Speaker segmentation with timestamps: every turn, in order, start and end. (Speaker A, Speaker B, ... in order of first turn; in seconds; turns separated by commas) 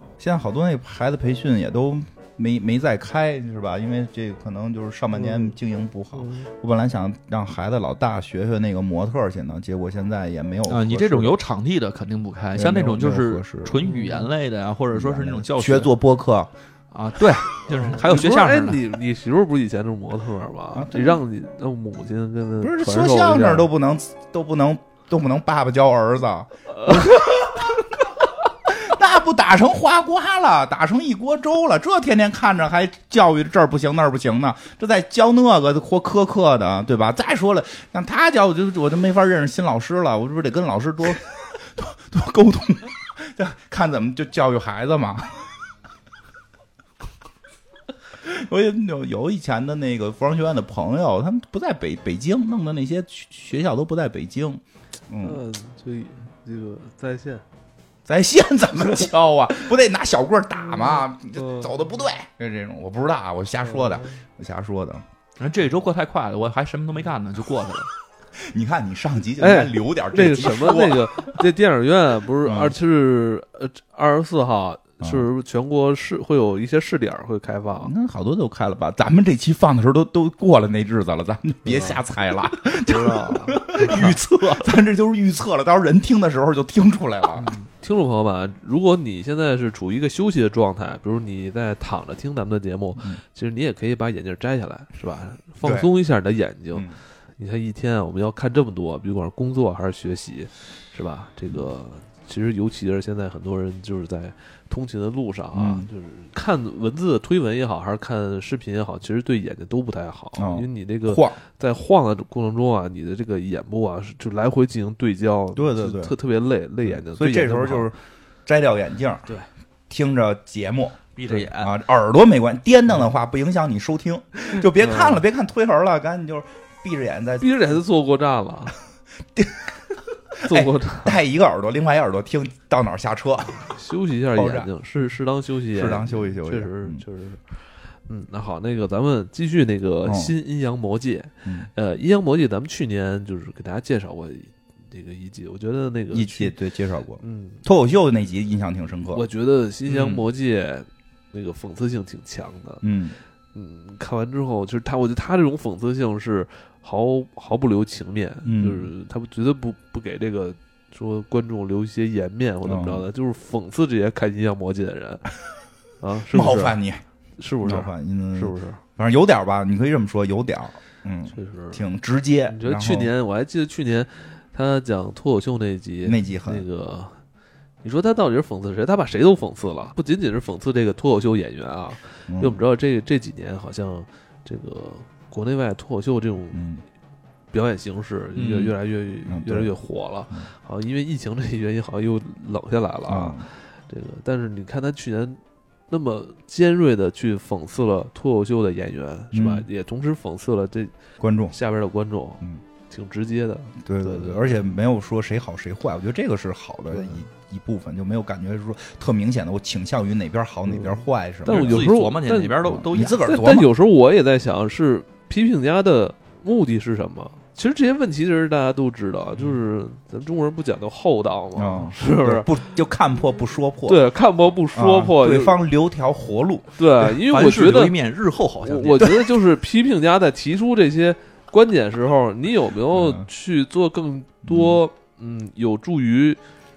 Speaker A: 0.2-11.3, Speaker B: 5.2-5.5, Speaker B: 6.2-6.5, Speaker C: 10.7-15.9, Speaker A: 12.5-13.8, Speaker B: 13.8-14.2, Speaker A: 14.9-16.5, Speaker C: 16.9-18.8, Speaker B: 17.7-23.7, Speaker A: 20.7-21.2, Speaker A: 22.6-28.0, Speaker B: 26.8-27.2, Speaker A: 28.6-45.5, Speaker A: 48.2-55.4, Speaker B: 55.2-57.4, Speaker A: 58.0-65.0, Speaker B: 60.8-61.7, Speaker B: 63.6-64.1, Speaker C: 65.4-67.9, Speaker A: 68.5-71.3, Speaker B: 69.4-77.9, Speaker A: 72.4-72.8, Speaker A: 77.8-87.5, Speaker B: 81.7-82.0, Speaker B: 82.8-84.1, Speaker C: 83.7-84.7, Speaker B: 87.4-117.9, Speaker A: 95.6-95.9, Speaker A: 105.5-105.9, Speaker A: 110.4-111.4, Speaker A: 115.5-116.1, Speaker A: 116.8-119.3, Speaker A: 119.9-127.5, Speaker C: 121.2-121.7, Speaker B: 124.9-125.2, Speaker B: 127.4-128.8, Speaker A: 129.3-129.6, Speaker A: 130.3-133.8, Speaker B: 130.4-131.2, Speaker B: 133.6-137.4, Speaker A: 134.3-134.7, Speaker A: 135.7-137.0, Speaker B: 138.1-146.6, Speaker A: 140.1-140.3, Speaker A: 141.4-141.7, Speaker A: 146.1-149.2, Speaker B: 147.2-147.6, Speaker B: 149.1-152.8, Speaker A: 149.9-150.2, Speaker A: 152.8-153.2, Speaker B: 153.5-165.2, Speaker A: 158.4-158.9, Speaker A: 162.6-163.0, Speaker B: 166.0-166.8, Speaker A: 166.3-167.0, Speaker B: 167.4-168.8, Speaker A: 167.6-173.1, Speaker B: 171.3-171.8, Speaker B: 172.5-177.2, Speaker A: 176.0-176.6, Speaker B: 177.8-186.6, Speaker A: 182.3-182.6, Speaker A: 186.5-186.8, Speaker B: 187.5-195.4, Speaker C: 188.3-188.7, Speaker A: 189.3-189.7, Speaker A: 193.1-193.5, Speaker B: 195.9-200.9, Speaker A: 199.3-199.7, Speaker A: 201.2-201.5, Speaker B: 201.5-204.5, Speaker A: 203.8-211.8, Speaker B: 206.9-207.2, Speaker B: 210.7-222.5, Speaker C: 211.5-213.3, Speaker A: 212.6-213.7, Speaker A: 221.6-224.0, Speaker B: 223.9-225.6, Speaker A: 224.7-226.7, Speaker B: 226.8-227.9, Speaker C: 227.2-229.2, Speaker B: 228.6-236.4, Speaker A: 232.9-233.2, Speaker A: 234.4-234.8